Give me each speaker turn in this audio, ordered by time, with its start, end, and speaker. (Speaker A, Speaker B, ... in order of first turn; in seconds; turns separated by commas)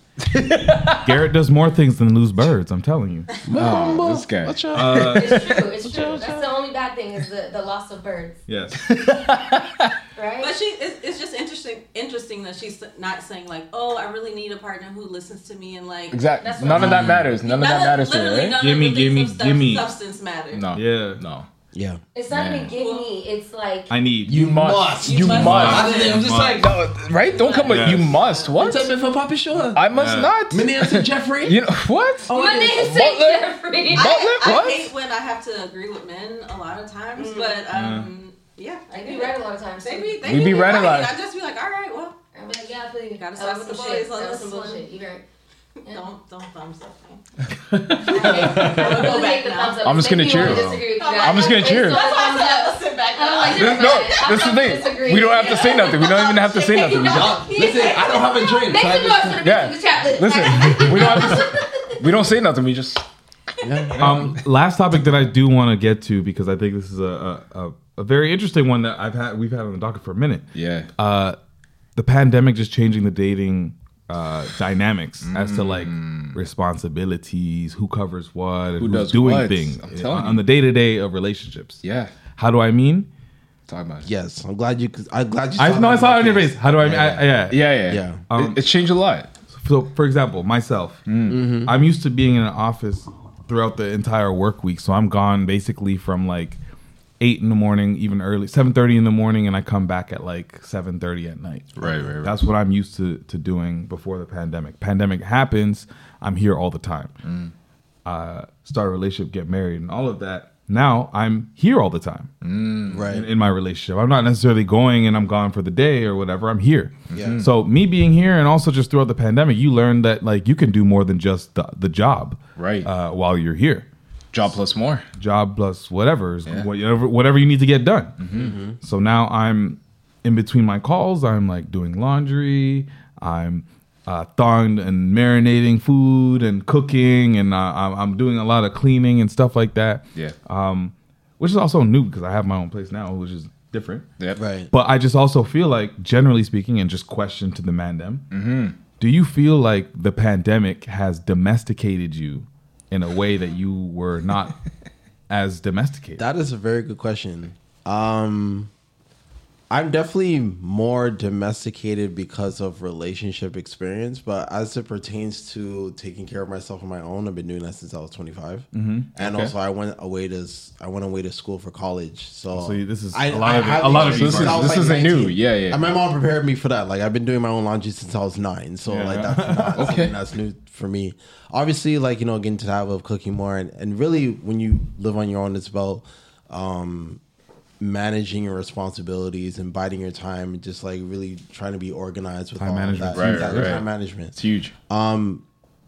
Speaker A: 0.2-1.1, Speaker B: 1.0-3.3, Speaker C: 3.5-5.2, Speaker A: 3.5-6.2, Speaker B: 4.7-5.6, Speaker D: 5.1-8.4, Speaker C: 5.8-6.4, Speaker B: 8.5-8.9, Speaker A: 8.9-9.9, Speaker D: 10.2-10.5, Speaker E: 10.4-20.6, Speaker A: 16.1-18.6, Speaker D: 16.4-16.8, Speaker C: 16.7-17.3, Speaker B: 18.6-19.9, Speaker A: 20.5-21.5, Speaker B: 20.7-21.2, Speaker C: 21.7-22.0, Speaker D: 22.1-23.9, Speaker B: 22.3-22.7, Speaker A: 22.3-22.6, Speaker E: 22.7-23.1, Speaker B: 23.9-24.5, Speaker C: 24.2-26.7, Speaker A: 24.3-28.9, Speaker E: 25.0-26.2, Speaker B: 25.3-26.7, Speaker E: 27.2-28.9, Speaker B: 27.6-28.1, Speaker C: 28.6-29.8, Speaker A: 29.7-34.9, Speaker B: 29.9-30.4, Speaker C: 30.5-31.6, Speaker C: 32.2-33.0, Speaker D: 32.3-34.2, Speaker E: 33.9-42.2, Speaker D: 37.1-37.7, Speaker B: 37.7-38.1, Speaker D: 38.9-40.3, Speaker A: 40.2-41.2, Speaker D: 42.3-45.2, Speaker E: 43.2-44.9, Speaker E: 45.9-47.2, Speaker A: 47.7-49.0, Speaker E: 48.1-49.8, Speaker D: 48.1-56.0, Speaker A: 49.8-52.1, Speaker B: 50.4-50.9, Speaker E: 50.9-54.4, Speaker A: 53.5-57.5, Speaker E: 55.1-58.5, Speaker D: 56.9-62.0, Speaker C: 57.0-59.4, Speaker A: 59.4-63.0, Speaker C: 63.6-64.4, Speaker A: 64.0-64.3, Speaker B: 64.0-71.4, Speaker A: 70.5-70.9, Speaker B: 72.0-81.8, Speaker A: 75.2-76.4, Speaker A: 78.8-80.4, Speaker A: 81.8-82.1, Speaker B: 82.3-83.1, Speaker A: 83.7-84.1, Speaker C: 84.0-87.3, Speaker B: 85.6-88.6, Speaker A: 87.5-89.3, Speaker C: 87.9-88.2, Speaker B: 89.5-91.0, Speaker A: 91.1-91.4, Speaker C: 91.3-91.7, Speaker B: 91.6-96.6, Speaker B: 97.2-107.1, Speaker A: 101.8-102.4, Speaker C: 101.8-102.1, Speaker A: 107.2-107.5, Speaker B: 108.0-112.3, Speaker A: 112.4-113.0, Speaker C: 112.9-113.3, Speaker B: 113.1-123.9, Speaker A: 117.1-117.5, Speaker C: 117.1-117.4, Speaker A: 122.5-122.9, Speaker A: 124.3-125.0, Speaker B: 125.2-128.2, Speaker A: 128.2-128.5, Speaker C: 128.3-128.8, Speaker B: 128.8-144.1, Speaker C: 144.3-144.7, Speaker B: 144.7-148.2, Speaker A: 148.3-148.8, Speaker B: 149.0-154.6, Speaker B: 155.3-156.2, Speaker C: 156.2-158.7, Speaker C: 159.7-187.2, Speaker B: 168.7-169.5, Speaker B: 172.5-174.9, Speaker A: 173.9-175.9, Speaker B: 178.9-179.7, Speaker A: 179.1-180.1, Speaker C: 187.8-194.3, Speaker B: 192.6-193.8, Speaker A: 193.1-194.7, Speaker C: 194.9-195.4